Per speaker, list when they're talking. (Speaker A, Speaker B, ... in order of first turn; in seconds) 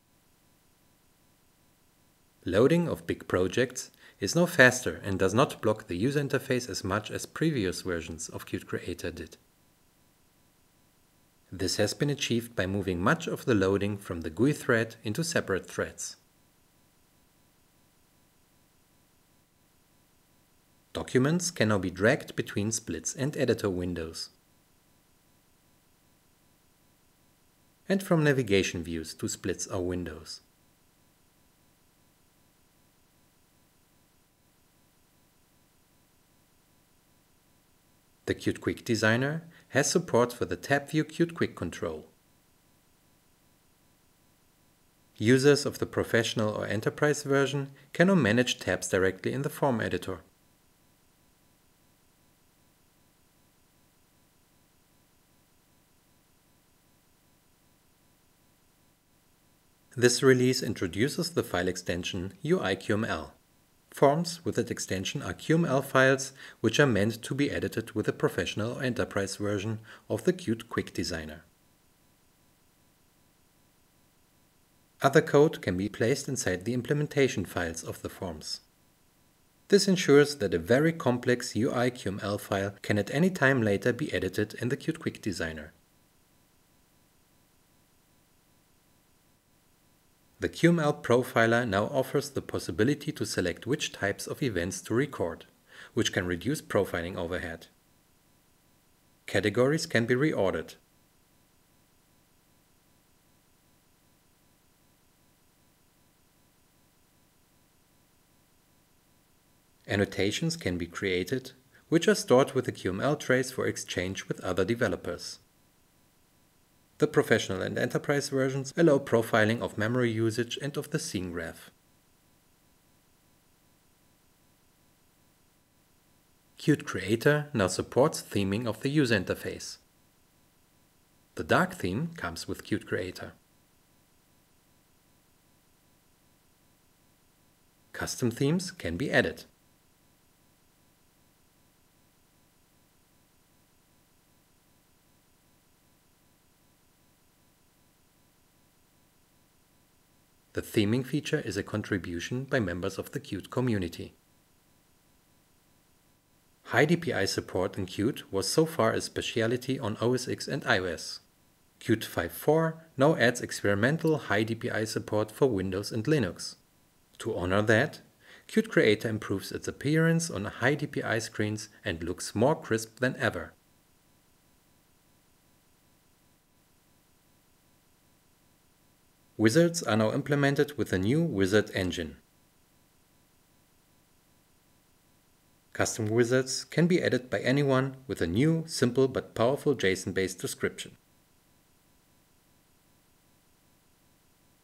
Speaker A: 2.4-9.4, 11.5-16.2, 20.9-24.3, 27.9-30.4, 38.2-42.1, 45.2-50.2, 59.9-63.4, 63.9-71.4, 75.0-78.6, 79.7-85.7, 90.4-97.7, 99.3-100.8, 109.9-115.4, 117.0-121.7, 126.6-129.8, 131.3-133.3, 137.9-139.5, 150.5-154.1, 156.6-161.2, 161.8-166.6, 167.2-173.5, 179.4-182.2, 185.7-190.9